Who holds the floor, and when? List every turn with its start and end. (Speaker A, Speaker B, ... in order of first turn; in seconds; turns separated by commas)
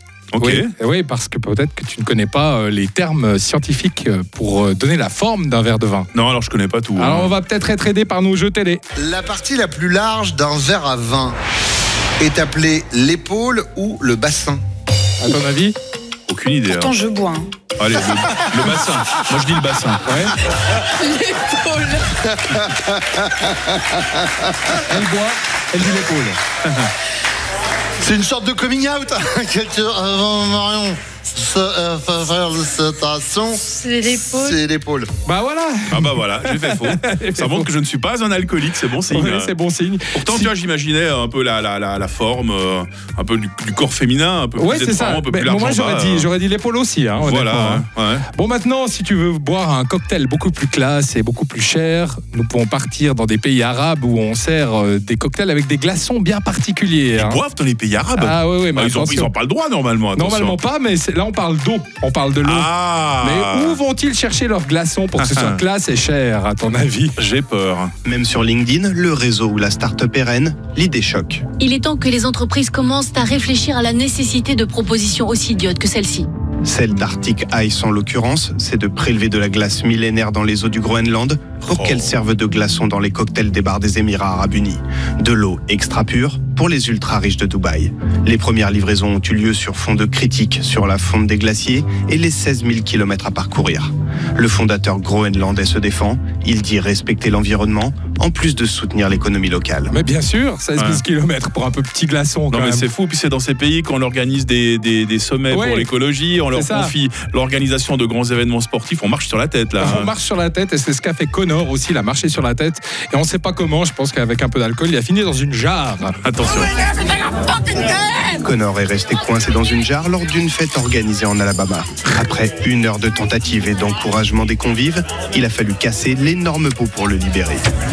Speaker A: 0.3-0.7, Speaker B: 0.4-6.1, Speaker A: 6.1-7.3, Speaker B: 7.0-8.8, Speaker C: 9.0-11.4, Speaker C: 12.2-14.6, Speaker B: 15.2-15.8, Speaker A: 16.3-16.9, Speaker D: 16.7-17.5, Speaker A: 17.8-20.1, Speaker B: 20.1-20.3, Speaker D: 20.9-22.1, Speaker B: 24.7-26.4, Speaker C: 28.1-35.1, Speaker D: 33.6-34.6, Speaker B: 35.2-37.7, Speaker A: 35.9-39.5, Speaker B: 39.0-40.5, Speaker A: 40.1-46.3, Speaker B: 44.6-57.4, Speaker A: 47.2-48.3, Speaker A: 57.1-60.6, Speaker B: 58.2-59.3, Speaker B: 60.1-67.2, Speaker A: 62.4-63.8, Speaker A: 65.2-65.6, Speaker A: 67.2-67.9, Speaker E: 68.0-71.4, Speaker F: 71.6-76.3, Speaker E: 76.6-99.9, Speaker A: 81.6-82.1, Speaker B: 99.9-102.9, Speaker A: 100.8-101.0, Speaker A: 102.5-110.1, Speaker B: 105.5-105.9, Speaker B: 106.5-106.9, Speaker B: 109.8-116.2, Speaker A: 116.2-116.7, Speaker E: 118.3-127.7